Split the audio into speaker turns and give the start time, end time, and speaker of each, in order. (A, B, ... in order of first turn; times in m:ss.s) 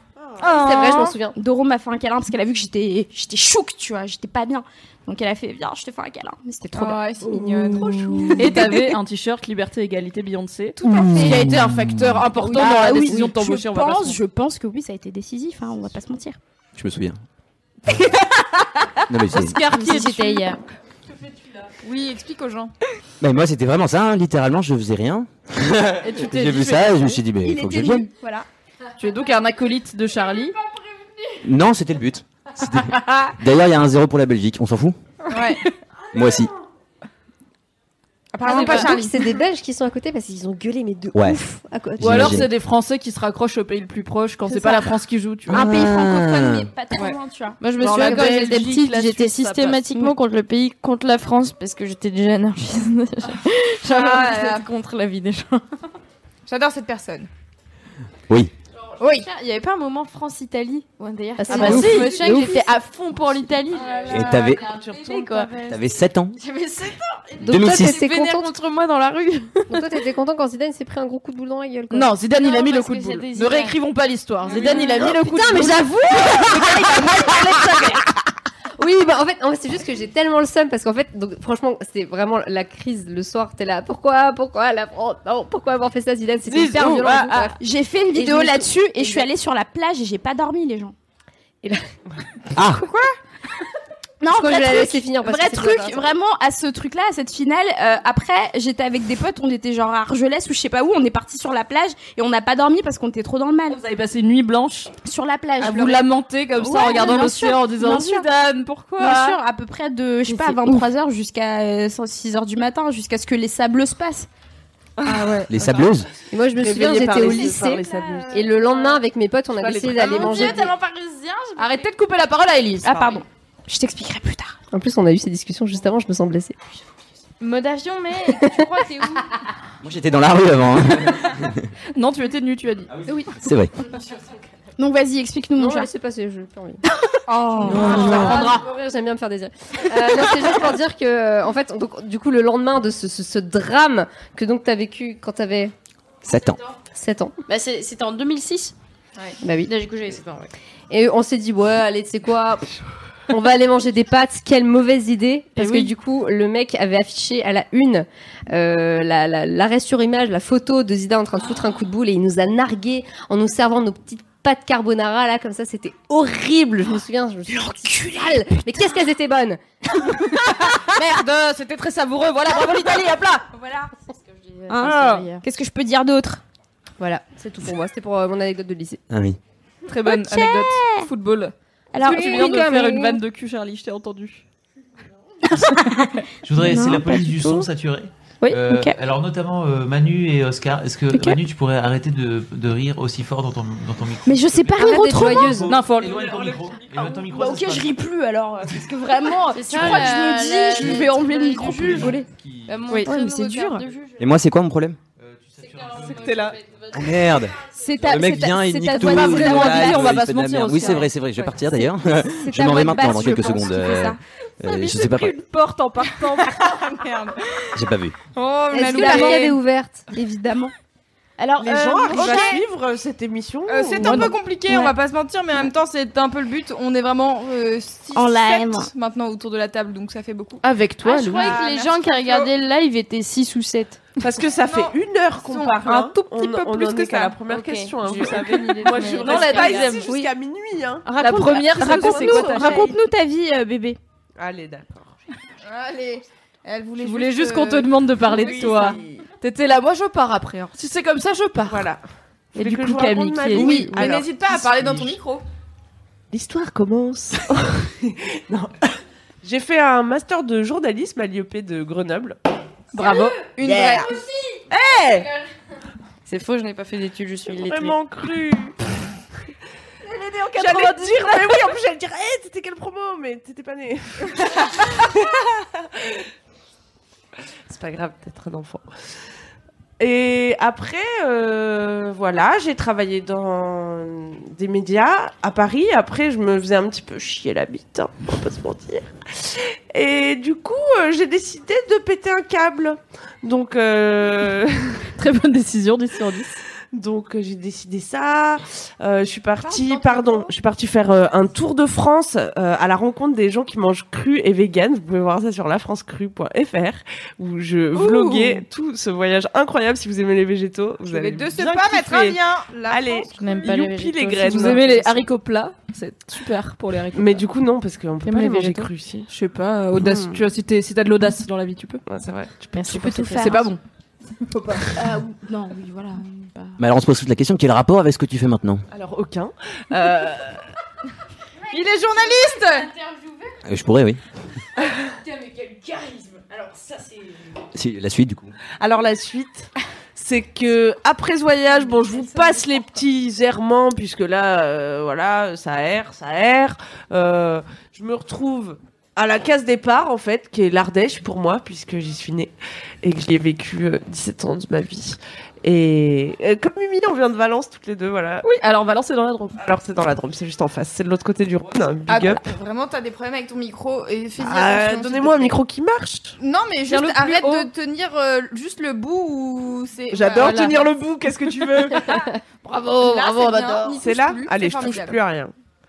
0:00.2-0:00.6 A
0:00.4-0:01.2 B
0:00.5-0:01.4 C
0:01.3-0:07.1 D
0:06.7-0:08.6 E
0:07.4-0:08.3 C
0:08.4-0:14.2 B
0:08.5-0:08.8 D
0:10.8-0:11.4 D
0:11.0-0:11.7 F
0:12.4-0:16.4 D
0:16.8-0:17.2 F
0:18.0-0:18.7 D
0:19.1-0:19.6 F
0:19.3-0:20.6 G
0:19.6-0:20.4 B
0:21.8-0:22.7 E
0:23.2-0:28.1 F
0:26.0-0:27.2 B
0:27.4-0:28.4 D
0:29.0-0:30.6 B
0:31.4-0:35.0 F
0:35.3-0:35.6 E
0:36.1-0:36.5 F
0:38.3-0:39.2 E
0:38.4-0:42.4 C
0:41.1-0:41.4 F
0:42.0-0:42.5 F
0:42.0-0:45.7 B
0:45.5-0:46.7 F
0:45.5-0:48.1 D
0:47.6-0:55.6 G
0:47.8-0:50.1 B
0:53.8-0:54.6 E
0:56.5-0:57.3 E
0:58.9-1:09.8 G
0:59.0-0:59.2 E
1:01.4-1:02.7 C
1:01.7-1:02.0 B
1:04.0-1:05.6 A
1:04.1-1:04.6 F
1:05.6-1:06.4 F
1:07.4-1:08.5 C
1:07.5-1:08.0 F
1:09.7-1:12.1 C
1:11.9-1:18.0 B
1:12.3-1:13.8 G
1:14.4-1:15.1 G
1:14.6-1:17.6 C
1:18.8-1:29.3 C
1:26.5-1:27.6 B
1:27.6-1:30.9 D
1:32.5-1:32.8 F
1:34.2-1:43.8 D
1:34.3-1:36.1 C
1:43.7-1:44.9 B
1:45.0-1:48.3 D
1:45.6-1:49.4 B
1:49.0-1:54.3 D
1:55.0-1:55.4 B
1:55.5-1:56.1 F
1:56.3-2:00.7 C
1:56.6-1:58.2 B
1:56.9-1:58.0 A
1:57.3-1:59.0 G
1:59.6-2:00.2 B
1:59.9-2:01.9 G
2:01.6-2:03.0 B
2:02.8-2:04.5 D
2:04.7-2:06.6 C
2:07.4-2:09.3 G
2:08.4-2:08.6 C
2:09.8-2:11.6 F
2:11.9-2:12.9 B
2:13.0-2:13.7 F
2:14.8-2:15.9 D
2:15.6-2:16.8 C
2:17.3-2:18.1 E
2:17.6-2:18.6 B
2:17.6-2:18.4 F
2:17.7-2:25.7 C
2:26.2-2:26.6 F
2:26.9-2:27.4 C
2:27.5-2:28.7 G
2:29.4-2:29.7 C
2:29.6-2:30.5 G
2:30.9-2:32.7 C
2:33.3-2:49.6 C
2:35.6-2:35.9 B
2:47.8-2:48.4 D
2:50.2-2:53.4 B
2:52.5-2:52.9 D
2:53.6-2:53.9 D
2:54.0-2:55.4 G
2:54.7-2:56.4 D
2:54.8-2:55.3 B
2:57.0-2:59.0 C
2:59.1-2:59.4 F
2:59.9-3:04.4 B
3:00.0-3:01.1 D
3:01.9-3:02.7 D
3:02.0-3:03.2 C
3:05.5-3:07.7 D
3:06.4-3:18.0 H
3:08.4-3:09.0 D
3:11.1-3:11.4 D
3:14.2-3:15.7 D
3:14.8-3:15.8 C
3:15.7-3:16.6 B
3:16.9-3:22.3 D
3:19.5-3:24.3 G
3:21.6-3:23.0 H
3:22.9-3:23.2 D
3:23.0-3:23.6 B
3:24.2-3:25.0 F
3:25.2-3:26.9 H
3:25.7-3:26.0 G
3:26.0-3:26.6 A
3:26.9-3:35.4 F
3:27.6-3:30.2 D
3:28.9-3:31.1 B
3:30.8-3:34.2 D
3:34.6-3:37.3 B
3:36.5-3:36.9 E
3:37.7-3:38.1 F
3:38.3-3:39.6 E
3:38.7-3:40.1 C
3:39.0-3:39.4 D
3:40.1-3:40.7 D
3:41.4-3:42.5 D
3:41.6-3:44.2 A
3:42.0-3:42.6 E
3:43.7-3:50.6 E
3:44.0-3:44.9 D
3:48.1-3:48.9 D
3:50.6-3:51.6 B
3:51.0-3:54.0 G
3:51.2-3:52.5 E
3:54.2-4:01.1 A
3:54.6-3:57.4 E
3:57.4-4:00.0 G
3:59.1-4:00.1 B
4:01.0-4:04.0 D
4:01.2-4:02.9 B
4:01.8-4:02.4 A
4:04.4-4:05.2 A
4:05.6-4:09.0 E
4:07.0-4:11.9 B
4:08.3-4:09.2 A
4:11.6-4:12.0 A
4:12.5-4:15.2 A
4:12.5-4:14.0 B
4:13.5-4:15.4 E
4:16.3-4:22.4 A
4:23.0-4:24.2 E
4:23.6-4:24.2 A
4:24.7-4:25.3 A
4:26.2-4:28.0 G
4:27.5-4:28.8 A
4:30.0-4:31.7 B
4:30.6-4:36.2 A
4:37.7-4:38.8 A
4:40.0-4:55.1 A
4:55.2-4:56.6 B
4:56.9-5:14.9 A
4:59.6-5:00.5 E
5:07.9-5:08.6 E
5:11.0-5:13.6 E
5:13.3-5:15.2 G
5:14.4-5:17.4 B
5:17.1-5:19.3 A
5:18.2-5:22.0 B
5:18.4-5:18.8 G
5:20.0-5:20.4 A
5:22.0-5:23.3 A
5:22.7-5:23.6 G
5:22.9-5:23.8 B
5:24.5-5:24.9 B
5:25.0-5:26.7 D
5:26.8-5:28.8 F
5:28.9-5:30.6 A
5:31.7-5:32.9 E
5:32.4-5:33.5 G
5:33.6-5:34.2 F
5:35.2-5:37.3 G
5:37.7-5:38.5 F
5:38.8-5:58.5 A
5:58.4-5:59.6 B
5:59.6-6:02.4 A
6:02.1-6:05.6 E
6:04.4-6:06.4 A
6:06.4-6:10.8 E
6:06.9-6:07.7 B
6:10.1-6:12.3 A
6:13.0-6:15.5 A
6:13.0-6:14.0 G
6:13.0-6:15.2 E